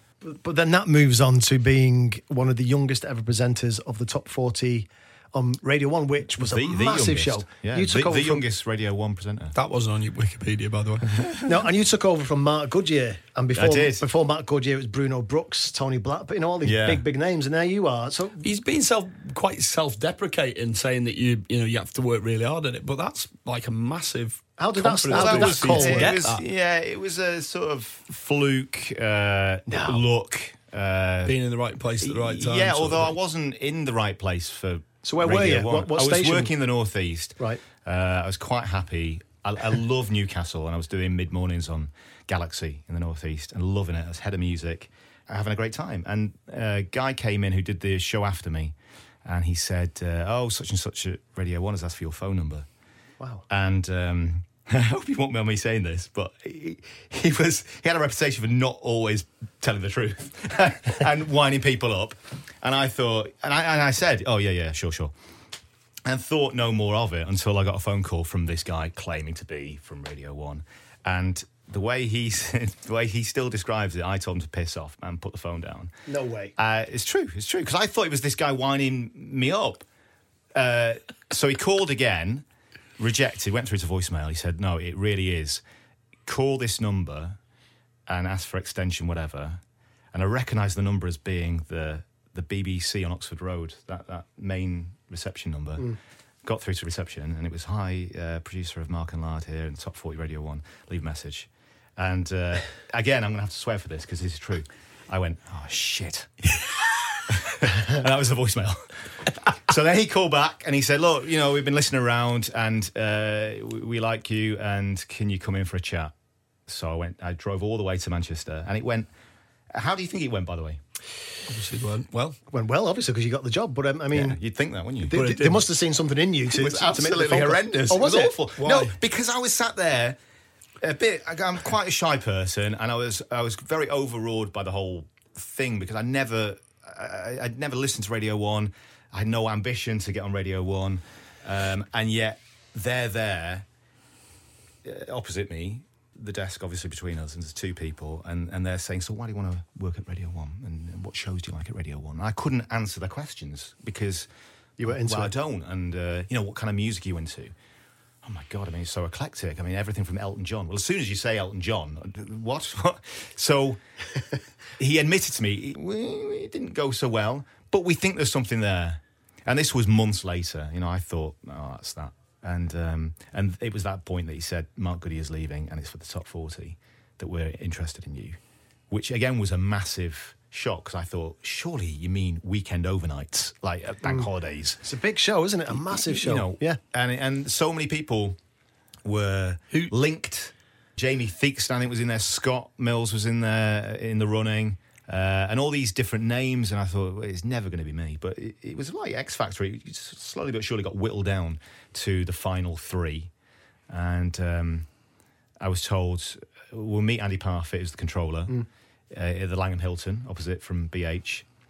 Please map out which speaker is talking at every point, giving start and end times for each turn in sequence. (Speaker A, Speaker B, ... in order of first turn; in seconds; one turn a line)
Speaker A: 0.2-8.4
Speaker B: 6.4-9.5
Speaker C: 9.5-11.2
Speaker A: 11.4-18.4
Speaker B: 13.5-14.0
Speaker B: 16.6-17.0
Speaker C: 18.4-26.4
Speaker A: 24.6-26.1
Speaker B: 25.1-31.3
Speaker A: 29.7-30.0
Speaker C: 31.2-33.1
Speaker B: 32.0-48.7
Speaker A: 35.0-36.5
Speaker B: 49.2-52.7
Speaker B: 53.5-65.1
Speaker B: 66.0-75.9
Speaker A: 76.1-76.5
Speaker B: 76.5-79.8
Speaker B: 80.5-82.4
Speaker B: 83.0-85.6
Speaker B: 86.2-87.4
Speaker B: 88.1-89.6
Speaker B: 90.1-106.5
Speaker B: 107.3-116.1
Speaker B: 116.7-119.1
Speaker B: 119.7-120.8
Speaker C: 121.5-122.4
Speaker A: 122.5-124.4
Speaker B: 124.1-125.2
Speaker A: 125.0-128.4
Speaker C: 125.1-125.7
Speaker B: 126.5-130.2
Speaker C: 128.6-128.9
Speaker B: 130.8-143.7
Speaker B: 144.8-154.3
Speaker A: 154.8-155.3
Speaker B: 154.8-157.5
Speaker B: 158.2-163.8
Speaker B: 164.8-178.4
Speaker B: 178.9-184.8
Speaker A: 184.8-186.8
Speaker B: 185.9-188.4
Speaker B: 189.0-203.3
Speaker B: 203.9-204.9
Speaker B: 205.6-211.4